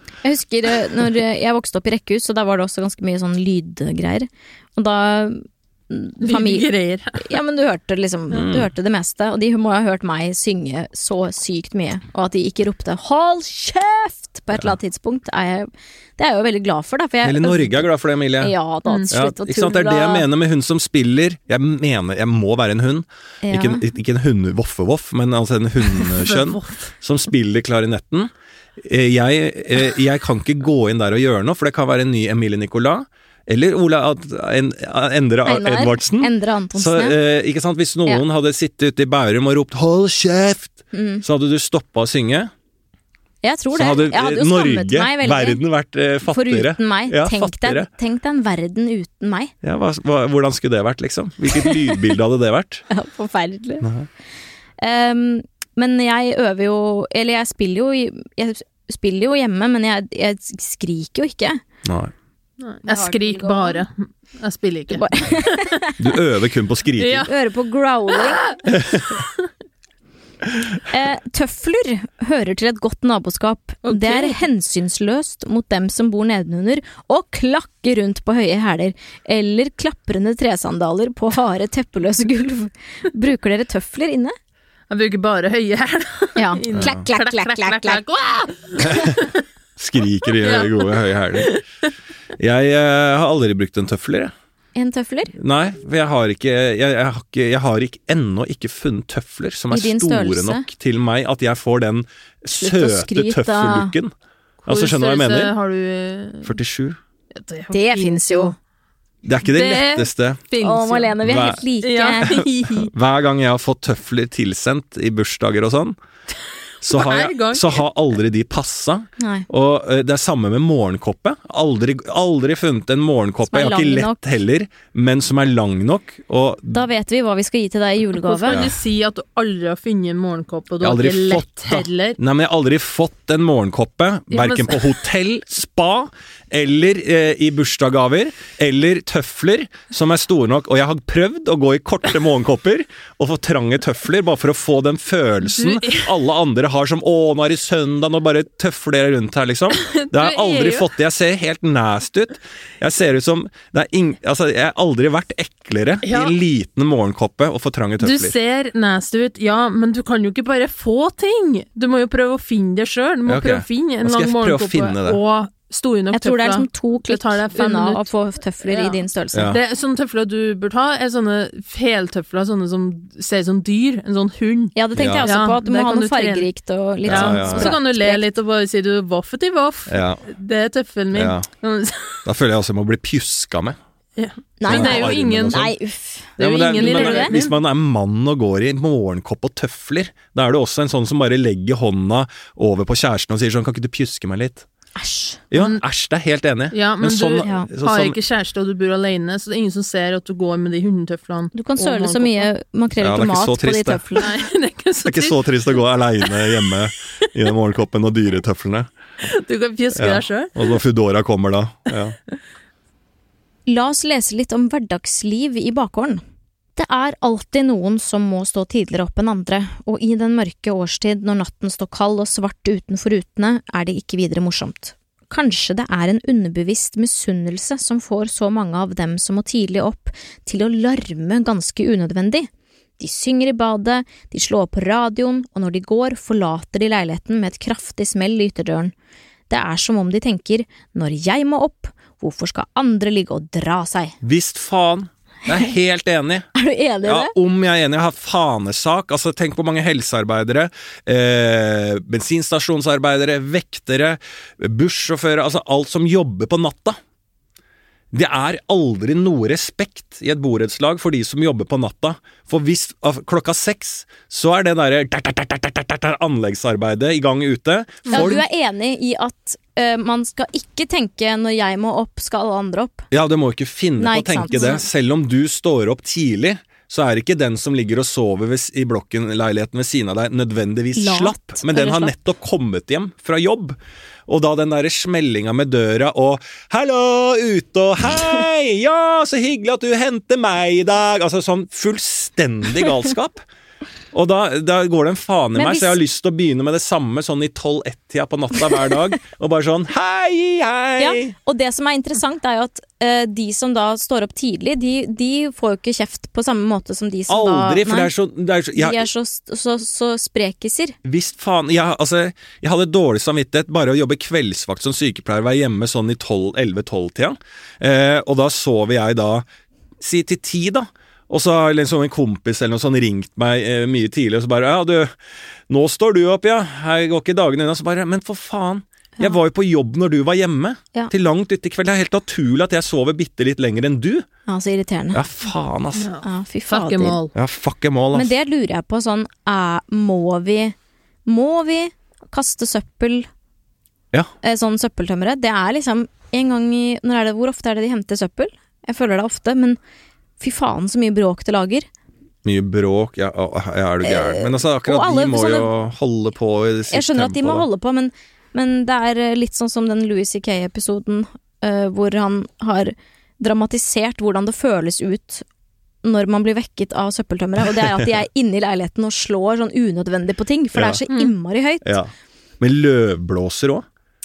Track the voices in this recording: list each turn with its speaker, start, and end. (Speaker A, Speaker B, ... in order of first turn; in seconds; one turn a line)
Speaker A: 0.2-17.9
Speaker B: 6.2-7.3
Speaker C: 8.3-8.7
Speaker C: 17.2-18.5
Speaker A: 18.4-20.3
Speaker C: 19.1-42.5
Speaker A: 23.4-23.8
Speaker B: 26.0-26.9
Speaker A: 35.5-37.2
Speaker A: 40.9-41.2
Speaker A: 43.4-45.6
Speaker C: 43.7-47.9
Speaker A: 46.3-49.5
Speaker C: 49.6-52.9
Speaker A: 51.5-51.9
Speaker A: 52.9-53.9
Speaker C: 53.8-54.1
Speaker A: 54.8-61.6
Speaker C: 61.9-62.1
Speaker B: 62.6-65.8
Speaker A: 62.9-63.9
Speaker A: 64.9-66.0
Speaker C: 66.0-67.3
Speaker B: 67.0-67.3
Speaker A: 67.3-68.5
Speaker B: 68.1-69.3
Speaker C: 68.7-69.0
Speaker A: 70.9-84.3
Speaker B: 73.8-74.4
Speaker B: 84.9-89.4
Speaker A: 86.4-88.0
Speaker C: 86.7-87.0
Speaker C: 88.9-89.1
Speaker C: 89.8-91.6
Speaker B: 90.3-91.6
Speaker C: 92.4-94.3
Speaker A: 94.8-95.3
Speaker C: 95.3-104.1
Speaker A: 99.7-100.7
Speaker A: 102.5-103.9
Speaker B: 104.7-106.5
Speaker C: 104.7-105.5
Speaker C: 106.4-107.0
Speaker B: 107.4-108.5
Speaker A: 107.7-108.5
Speaker C: 109.2-110.4
Speaker B: 109.5-111.2
Speaker A: 110.6-112.4
Speaker C: 111.2-111.6
Speaker B: 111.8-112.9
Speaker C: 112.2-116.0
Speaker C: 116.8-126.8
Speaker B: 116.9-117.8
Speaker A: 119.2-119.5
Speaker A: 123.5-124.2
Speaker A: 126.7-128.7
Speaker B: 128.2-132.2
Speaker C: 130.8-158.3
Speaker B: 134.3-135.0
Speaker B: 145.4-146.1
Speaker B: 149.7-150.9
Speaker B: 156.0-156.4
Speaker B: 158.0-168.1
Speaker C: 163.3-165.2
Speaker A: 166.1-169.6
Speaker B: 168.6-176.5
Speaker C: 169.3-169.6
Speaker A: 174.8-178.3
Speaker C: 175.0-175.3
Speaker C: 177.1-177.8
Speaker B: 177.1-182.2
Speaker C: 179.9-180.2
Speaker C: 181.1-181.4
Speaker C: 182.2-183.8
Speaker B: 184.2-185.7
Speaker A: 184.6-187.3
Speaker C: 184.7-185.7
Speaker B: 186.4-187.6
Speaker C: 186.4-194.7
Speaker A: 195.0-195.4
Speaker C: 195.5-198.2
Speaker B: 195.6-195.8
Speaker B: 196.7-202.5
Speaker A: 197.4-197.7
Speaker A: 201.5-204.3
Speaker C: 203.0-204.0
Speaker B: 204.2-207.3
Speaker C: 205.1-208.9
Speaker B: 209.2-210.8
Speaker C: 209.9-212.2
Speaker A: 213.7-216.2
Speaker A: 216.8-232.5
Speaker A: 233.0-238.9
Speaker A: 239.5-244.2
Speaker C: 244.2-246.5
Speaker A: 246.6-247.3
Speaker C: 247.1-257.0
Speaker C: 258.1-268.4
Speaker B: 268.1-268.4
Speaker A: 268.1-273.1
Speaker C: 273.1-293.4
Speaker A: 274.0-274.8
Speaker B: 274.5-274.8
Speaker A: 281.0-282.1
Speaker C: 294.1-301.3
Speaker A: 295.6-296.0
Speaker A: 301.0-308.1
Speaker C: 307.3-309.1
Speaker A: 308.8-311.0
Speaker C: 311.0-319.4
Speaker C: 320.0-325.1
Speaker C: 325.7-334.3
Speaker A: 334.5-335.2
Speaker C: 335.1-336.1
Speaker B: 335.9-337.4
Speaker A: 336.2-337.2
Speaker C: 337.4-338.3
Speaker A: 338.1-340.8
Speaker A: 341.3-343.3
Speaker A: 344.4-349.8
Speaker A: 350.4-351.9
Speaker C: 352.4-357.7
Speaker A: 354.0-355.7
Speaker A: 356.9-365.4
Speaker A: 366.0-372.0
Speaker C: 370.8-371.0
Speaker C: 371.8-373.9